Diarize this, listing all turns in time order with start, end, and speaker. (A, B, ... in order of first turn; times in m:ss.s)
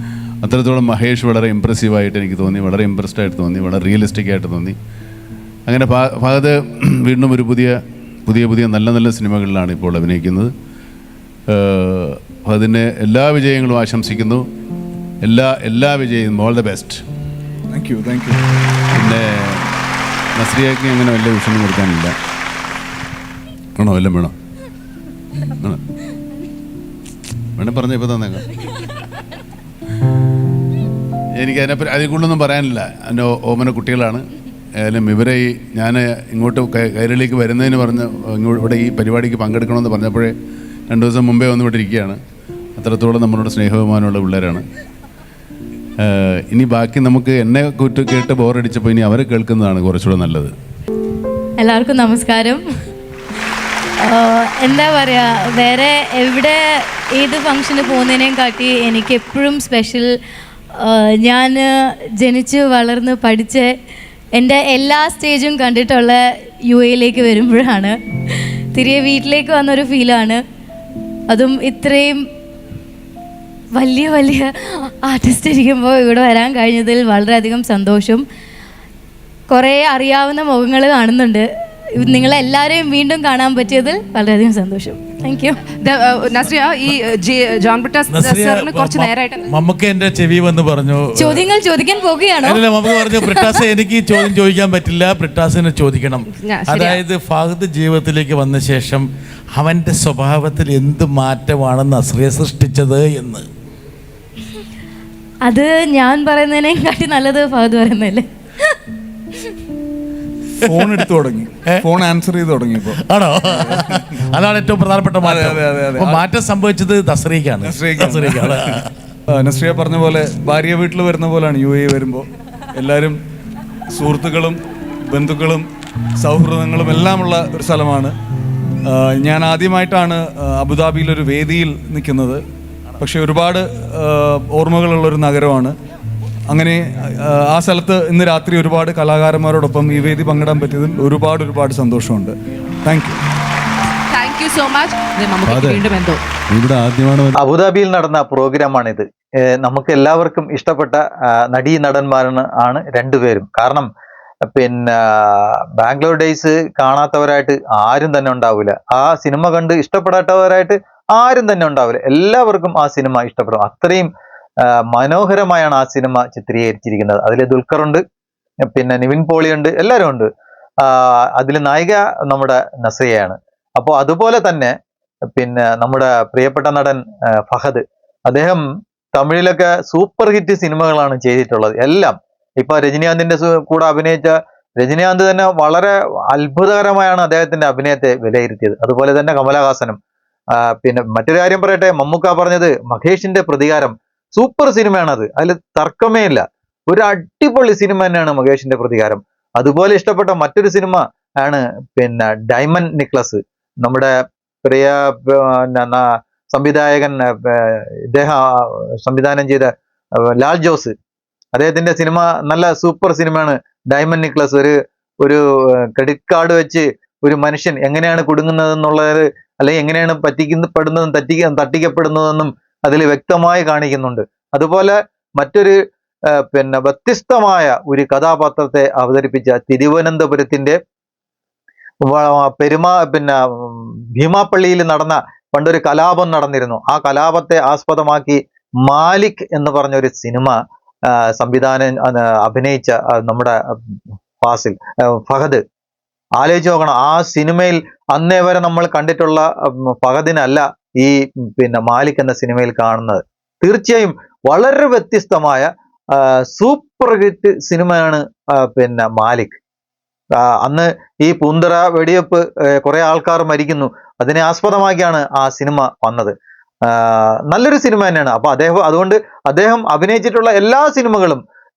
0:00.4-0:04.8 A
0:05.7-0:10.5 A
0:11.5-0:14.4 A
0:15.2-0:17.0 A
0:17.7-0:18.4 B
0:18.9-0:19.7 A
0:20.4-0:22.2 A
0:23.8-0:24.3 A
0:27.6-0:28.5 A
0:31.4-0:34.2 A
0:34.8-0:40.3 A
0:40.9-0:42.2 A
0:42.8-0:44.6 A
0:46.0-0:50.5 A
0:51.6-0:52.6 C
0:54.0-1:00.1 C
1:00.8-1:03.7 C
1:04.4-1:10.4 C
1:11.3-1:12.2 C
1:13.8-1:18.2 C
1:19.5-1:25.6 C
1:25.8-1:29.5 D
1:28.1-1:31.5 E
1:31.2-1:33.6 C
1:32.4-1:43.5 E
1:36.4-1:37.0 D
1:45.4-1:48.8 C
1:50.6-1:54.2 B
1:50.6-1:51.0 E
1:53.0-1:58.9 E
1:55.2-1:56.3 B
1:57.6-2:03.2 B
2:03.9-2:08.2 B
2:08.8-2:12.4 B
2:13.0-2:15.8 B
2:16.5-2:23.2 B
2:24.1-2:26.2 D
2:25.4-2:25.8 A
2:26.5-2:27.4 A
2:27.4-2:29.0 F
2:29.6-2:33.9 F
2:34.5-2:44.1 F
2:44.9-2:48.0 F
2:48.7-2:50.3 F
2:50.8-2:54.7 F
2:55.4-3:10.0 F
3:10.7-3:29.7 F
3:30.4-3:30.9 F
3:31.5-3:45.8 F
3:46.4-3:50.8 F
3:52.0-4:00.6 F
4:01.4-4:03.6 F
4:04.4-4:05.6 F
4:06.4-4:19.6 F
4:20.6-4:26.3 F
4:26.9-4:31.4 F